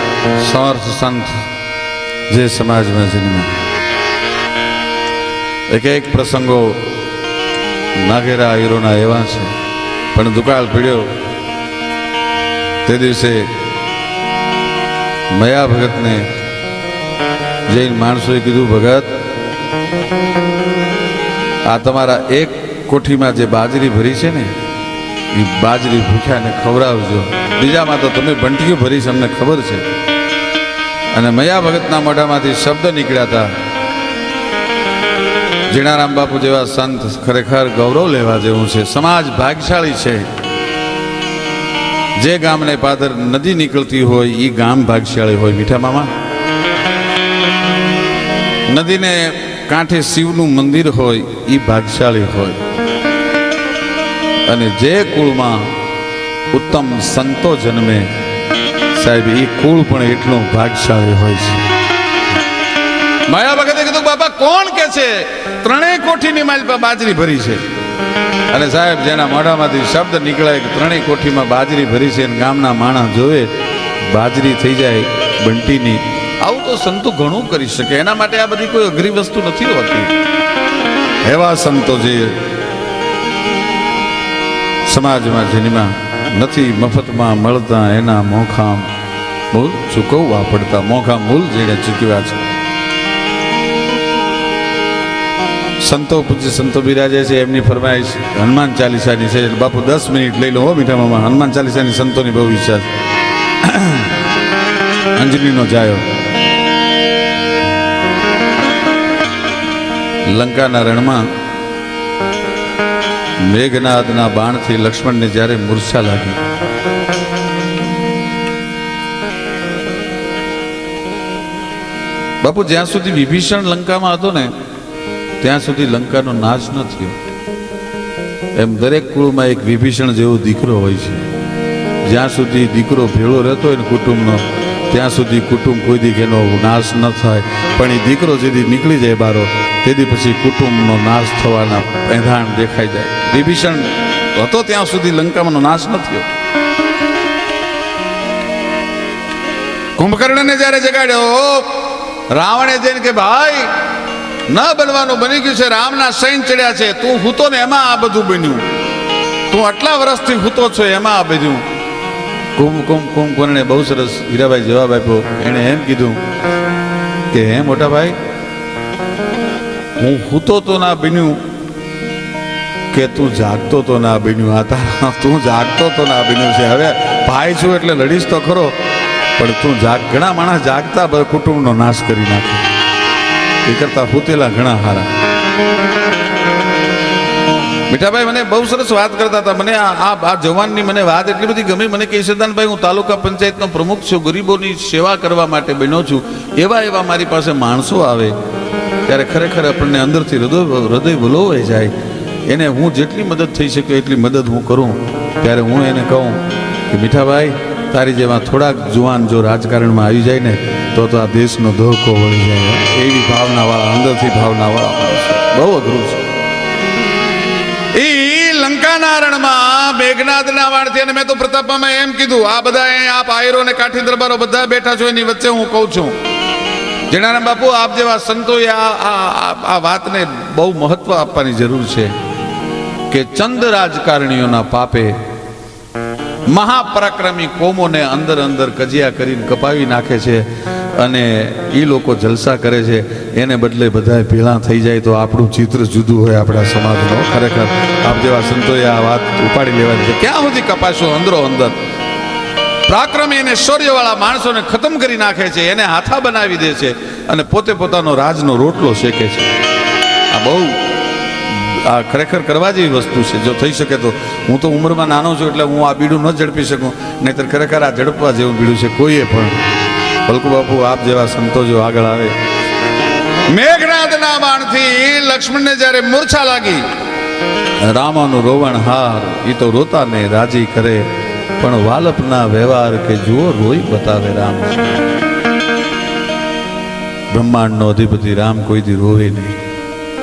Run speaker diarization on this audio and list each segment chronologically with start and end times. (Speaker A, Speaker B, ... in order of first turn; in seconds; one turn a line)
Speaker A: 0.4-1.4
Speaker A: 2.3-3.6
Speaker A: 5.7-6.8
Speaker A: 8.0-9.5
Speaker A: 10.1-11.0
Speaker A: 12.8-13.5
Speaker A: 15.3-16.3
Speaker A: 17.7-19.1
Speaker A: 21.7-24.5
Speaker A: 25.3-29.8
Speaker A: 31.1-33.5
Speaker A: 35.7-40.3
Speaker A: 42.2-46.1
Speaker A: 48.7-52.6
Speaker A: 54.5-55.7
Speaker A: 56.5-58.1
Speaker A: 59.0-61.6
Speaker A: 63.3-67.6
Speaker A: 68.5-73.5
Speaker A: 74.1-80.1
Speaker A: 81.2-82.3
Speaker A: 84.9-88.9
Speaker A: 89.5-92.4
Speaker A: 95.8-102.9
Speaker A: 103.6-104.2
Speaker A: 105.2-106.0
Speaker A: 110.3-111.2
Speaker A: 113.5-116.4
Speaker A: 122.4-124.5
Speaker A: 125.4-127.2
Speaker A: 128.5-131.2
Speaker A: 132.0-146.3
Speaker A: 150.0-151.8
Speaker A: 152.3-153.7
Speaker A: 154.5-158.6
Speaker A: 159.5-161.6
Speaker A: 162.6-166.2
Speaker A: 167.3-168.2
Speaker A: 170.0-171.4
Speaker A: 172.9-178.7
Speaker A: 179.4-182.6
Speaker A: 183.6-185.1
Speaker A: 187.9-198.3
Speaker A: 199.1-201.9
Speaker A: 202.5-216.2
Speaker A: 217.9-226.1
Speaker A: 227.1-232.1
Speaker A: 233.1-235.2
Speaker A: 236.5-251.8
Speaker A: 252.9-259.5
Speaker A: 260.3-260.7
Speaker A: 261.4-269.6
Speaker A: 270.3-272.3
Speaker A: 273.5-276.8
Speaker A: 277.8-281.0
Speaker A: 281.6-284.9
Speaker A: 287.3-289.6